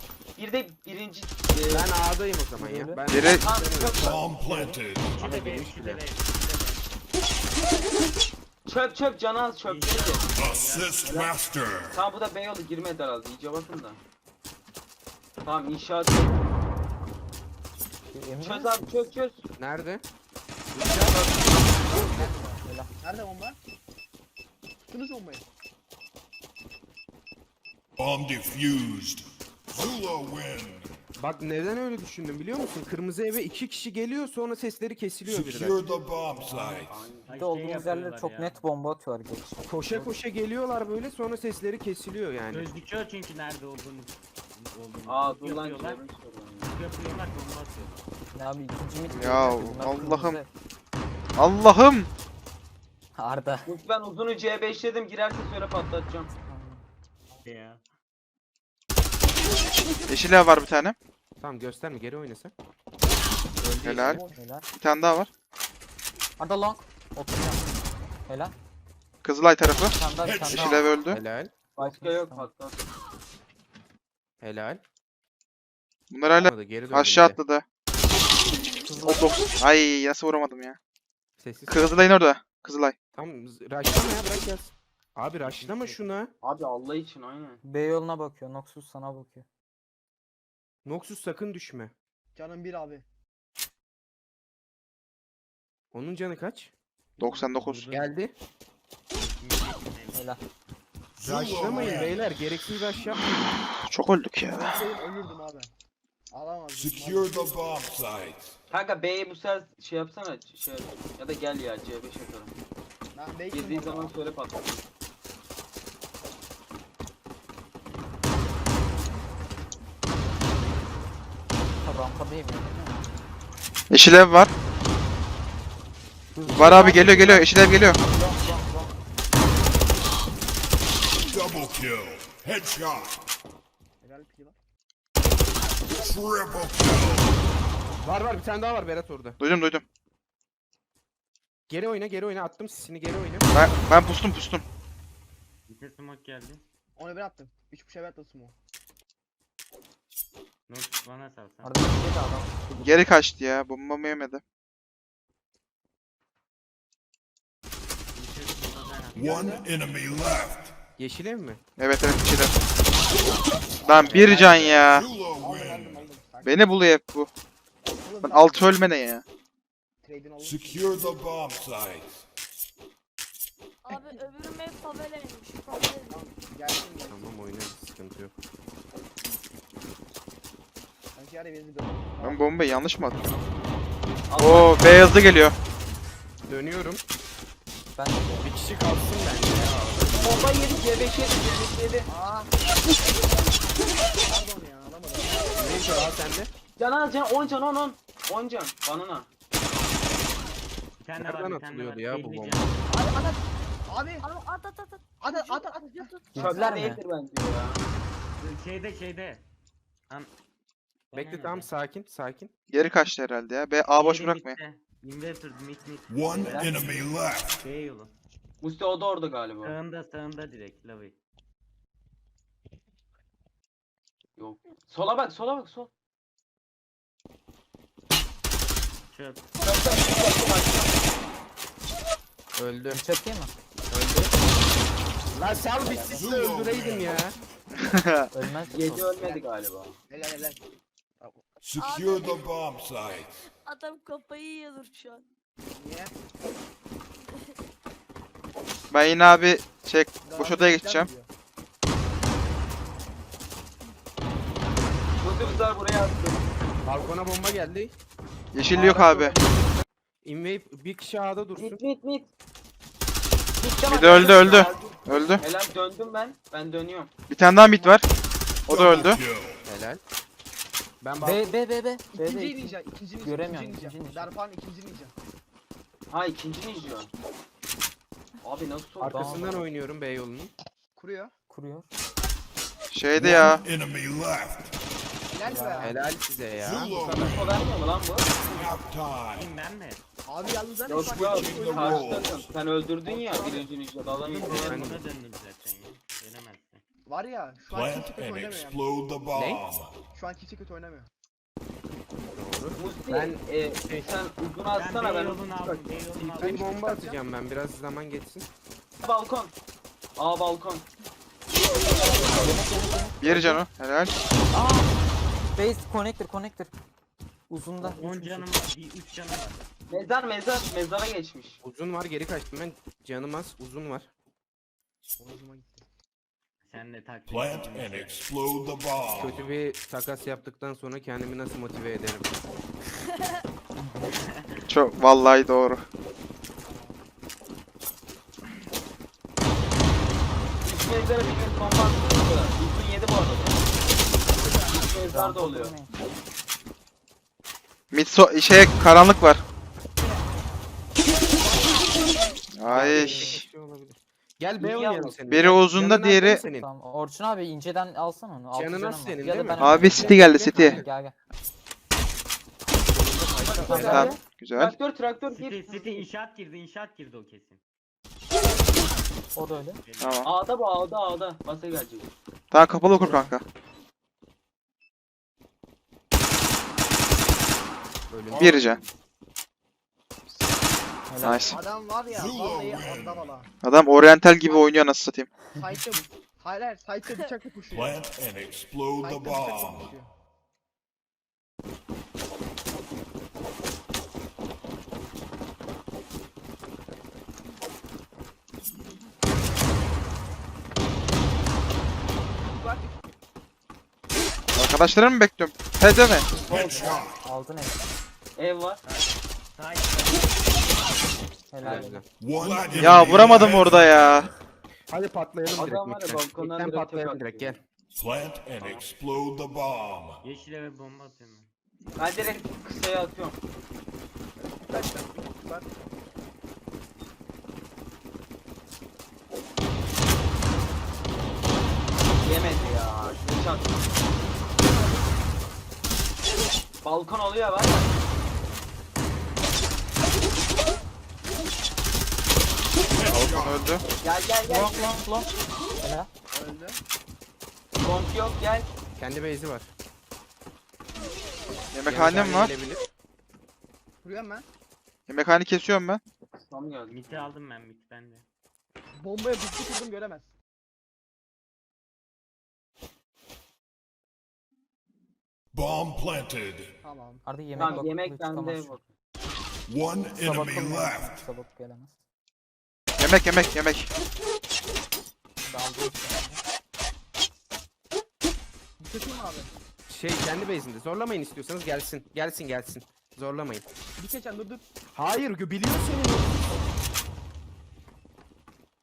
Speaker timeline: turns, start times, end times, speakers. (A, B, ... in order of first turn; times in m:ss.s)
0:00.4-0:01.8 A
0:01.7-0:04.1 B
0:02.6-0:03.0 C
0:03.1-0:03.5 D
0:03.4-0:04.3 A
0:03.8-0:05.2 E
0:04.4-0:06.8 F
0:05.2-0:06.0 B
0:08.6-0:10.2 A
0:09.6-0:11.1 F
0:10.3-0:12.0 E
0:11.0-0:11.3 A
0:11.9-0:14.0 A
0:15.4-0:16.4 A
0:18.1-0:19.1 C
0:18.4-0:19.4 A
0:19.6-0:20.0 B
0:20.7-0:21.3 B
0:20.8-0:21.9 A
0:21.8-0:23.6 G
0:22.6-0:22.9 C
0:24.9-0:25.4 G
0:28.0-0:30.9 E
0:31.2-0:35.8 B
0:35.2-0:36.9 E
0:36.4-0:40.1 C
0:36.9-0:37.4 A
0:37.3-0:38.6 F
0:39.6-0:42.7 B
0:42.5-0:46.0 F
0:45.0-0:46.7 A
0:46.6-0:48.1 F
0:48.3-0:50.5 C
0:49.1-0:50.4 D
0:51.4-0:52.1 D
0:53.2-0:53.7 C
0:53.6-0:56.3 A
0:56.4-0:56.8 C
0:57.4-0:57.8 F
1:00.1-1:01.0 D
1:01.4-1:02.5 B
1:03.6-1:04.2 B
1:03.8-1:05.3 D
1:04.1-1:04.4 G
1:04.3-1:04.7 C
1:06.4-1:07.7 C
1:08.3-1:08.5 C
1:09.2-1:09.9 D
1:09.8-1:10.9 C
1:10.2-1:10.7 E
1:10.5-1:11.2 D
1:11.1-1:11.5 B
1:11.8-1:12.8 A
1:11.8-1:12.5 C
1:14.4-1:14.8 B
1:16.1-1:17.6 D
1:16.3-1:17.4 B
1:18.8-1:19.3 C
1:19.0-1:20.8 D
1:21.4-1:22.1 B
1:21.7-1:22.9 D
1:23.1-1:26.3 B
1:25.4-1:26.0 F
1:26.4-1:27.6 A
1:27.6-1:29.4 C
1:30.8-1:31.9 B
1:32.3-1:33.0 G
1:35.9-1:36.7 B
1:37.2-1:37.5 G
1:37.2-1:37.8 D
1:37.6-1:38.1 F
1:37.9-1:38.3 B
1:39.1-1:40.3 F
1:40.1-1:40.4 C
1:41.2-1:42.2 E
1:41.2-1:43.6 B
1:41.6-1:42.2 G
1:43.9-1:44.7 D
1:44.5-1:45.7 G
1:46.3-1:47.5 G
1:46.7-1:48.6 E
1:48.7-1:52.5 A
1:53.1-1:54.1 G
1:53.5-1:54.8 A
2:01.8-2:03.0 C
2:03.9-2:04.5 D
2:06.3-2:07.6 C
2:06.5-2:08.0 D
2:11.2-2:13.2 E
2:14.0-2:14.6 G
2:15.9-2:17.4 E
2:18.0-2:19.4 B
2:19.4-2:19.8 D
2:21.7-2:23.5 B
2:23.5-2:24.6 D
2:25.7-2:26.6 F
2:27.0-2:28.5 G
2:30.7-2:31.9 F
2:31.6-2:33.0 C
2:32.7-2:34.4 D
2:38.1-2:39.3 F
2:39.1-2:40.7 E
2:39.2-2:39.7 G
2:41.0-2:41.6 B
2:41.8-2:42.5 D
2:43.8-2:44.6 G
2:43.8-2:45.1 D
2:43.9-2:45.0 B
2:44.5-2:46.1 E
2:45.3-2:46.6 G
2:46.4-2:47.3 D
2:48.0-2:48.8 G
2:48.2-2:49.2 D
2:50.0-2:51.3 G
2:50.4-2:52.2 E
2:53.8-2:56.3 H
2:56.1-2:57.3 G
2:57.0-2:58.3 B
3:01.1-3:02.5 G
3:02.2-3:03.2 D
3:04.3-3:04.8 A
3:04.4-3:05.5 D
3:06.5-3:07.0 B
3:08.0-3:08.5 C
3:08.4-3:10.5 B
3:10.1-3:12.1 A
3:12.1-3:12.6 G
3:14.2-3:16.1 G
3:15.6-3:16.5 B
3:16.8-3:19.3 A
3:21.0-3:22.8 F
3:21.2-3:22.6 B
3:22.9-3:24.2 G
3:24.2-3:26.4 H
3:25.2-3:26.1 G
3:26.3-3:27.0 C
3:26.3-3:27.8 A
3:28.4-3:29.4 F
3:31.1-3:31.7 F
3:31.1-3:32.5 B
3:32.7-3:34.6 D
3:33.9-3:36.8 F
3:36.1-3:37.6 E
3:36.4-3:36.7 A
3:37.6-3:38.1 F
3:38.6-3:39.7 A
3:39.6-3:41.2 F
3:44.4-3:45.9 A
3:49.1-3:49.5 F
3:49.6-3:51.0 A
3:52.6-3:53.0 B
3:52.9-3:53.5 C
3:53.9-3:54.3 B
3:55.3-3:57.3 B
3:55.8-3:56.2 A
3:56.1-3:57.2 E
3:57.8-3:58.2 D
3:58.3-3:58.9 C
3:58.6-4:00.0 A
3:58.8-3:59.1 B
4:00.1-4:00.6 G
4:01.6-4:03.4 E
4:01.8-4:02.4 H
4:03.5-4:05.2 H
4:05.7-4:06.1 G
4:08.9-4:11.1 D
4:10.2-4:11.3 G
4:15.2-4:16.4 A
4:16.8-4:17.9 B
4:18.5-4:19.4 D
4:18.7-4:19.6 A
4:20.2-4:21.8 B
4:21.5-4:22.3 A
4:23.6-4:27.1 A
4:23.8-4:25.4 D
4:27.3-4:28.0 D
4:28.7-4:29.2 D
4:28.7-4:29.6 E
4:29.6-4:30.0 B
4:31.0-4:31.5 B
4:31.2-4:34.3 C
4:32.1-4:35.1 G
4:32.1-4:32.4 A
4:36.1-4:37.1 A
4:38.4-4:39.5 A
4:39.0-4:40.5 B
4:39.0-4:39.7 C
4:41.0-4:41.3 G
4:41.5-4:41.9 C
4:42.9-4:43.6 D
4:43.2-4:44.8 E
4:43.2-4:43.6 C
4:45.3-4:46.0 G
4:45.4-4:45.9 C
4:45.8-4:47.3 B
4:46.6-4:47.6 E
4:47.3-4:48.3 A
4:48.4-4:49.5 E
4:49.3-4:50.0 F
4:50.2-4:52.0 G
4:50.8-4:54.8 A
4:50.9-4:52.5 E
4:53.0-4:54.8 G
4:54.4-4:56.8 F
4:54.6-4:55.0 B
4:57.0-4:58.8 G
4:57.7-4:59.9 E
4:59.3-4:59.6 B
5:00.1-5:01.1 G
5:02.3-5:04.1 B
5:02.7-5:06.6 A
5:04.7-5:06.7 F
5:06.1-5:08.5 B
5:09.0-5:09.5 A
5:10.2-5:10.9 A
5:12.2-5:13.6 C
5:13.2-5:14.1 D
5:14.5-5:15.0 C
5:15.6-5:16.7 C
5:17.5-5:18.5 C
5:17.8-5:19.6 F
5:19.9-5:21.6 A
5:21.6-5:24.1 B
5:25.2-5:25.8 G
5:26.6-5:28.2 F
5:27.3-5:29.4 E
5:29.2-5:32.4 B
5:33.8-5:34.1 C
5:34.3-5:34.5 F
5:34.7-5:35.8 D
5:36.6-5:37.0 G
5:40.6-5:43.6 A
5:44.4-5:44.8 G
5:44.7-5:45.8 A
5:44.9-5:45.9 C
5:47.9-5:49.4 D
5:52.5-5:53.4 D
5:52.6-5:56.7 B
5:52.6-5:53.4 C
5:54.6-5:55.2 A
5:55.3-5:56.4 D
5:56.4-6:01.1 C
5:58.5-6:00.9 B
5:59.6-6:00.8 D
6:02.9-6:04.2 B
6:03.4-6:06.0 A
6:03.7-6:04.2 C
6:03.7-6:04.7 D
6:05.3-6:07.6 F
6:09.3-6:09.8 C
6:09.4-6:10.2 F
6:10.0-6:10.3 D
6:10.2-6:12.1 A
6:12.5-6:13.4 D
6:13.0-6:13.3 C
6:18.1-6:18.8 B
6:18.3-6:18.8 D
6:21.1-6:21.5 C
6:21.2-6:21.5 D
6:21.5-6:23.5 G
6:22.1-6:23.4 E
6:23.6-6:25.3 D
6:24.5-6:24.7 G
6:25.6-6:28.0 G
6:27.7-6:29.9 E
6:29.0-6:30.1 G
6:42.4-6:43.0 G
6:44.5-6:46.3 D
6:46.4-6:47.2 E
6:46.6-6:47.0 G
6:47.1-6:47.8 C
6:48.4-6:48.8 A
6:48.8-6:50.4 F
6:51.5-6:52.1 C
6:51.6-6:53.2 B
6:52.2-6:54.3 E
6:52.8-6:54.3 D
6:54.9-6:57.6 B
6:55.5-6:57.6 A
6:57.9-7:00.2 E
7:00.2-7:01.5 F
7:02.0-7:03.4 A
7:04.4-7:05.7 G
7:12.2-7:13.8 A
7:16.8-7:18.0 A
7:22.9-7:23.6 E
7:23.1-7:23.3 B
7:23.3-7:23.8 D
7:24.0-7:24.9 A
7:24.5-7:25.3 C
7:25.8-7:26.1 C
7:26.3-7:26.8 G
7:27.8-7:28.7 A
7:29.0-7:29.7 B
7:31.7-7:32.5 D
7:31.8-7:32.8 B
7:34.0-7:34.4 G
7:35.1-7:36.0 D
7:36.4-7:37.3 A
7:36.9-7:38.2 F
7:39.0-7:40.3 G
7:45.5-7:46.7 E
7:46.8-7:47.9 G
7:47.2-7:48.8 C
7:47.5-7:48.9 A
7:49.7-7:51.2 E
7:50.2-7:52.0 C
7:53.0-7:53.9 D
7:55.4-7:56.4 C
7:58.8-7:59.5 G
7:59.9-8:03.6 B
8:04.0-8:04.6 G
8:04.9-8:06.4 B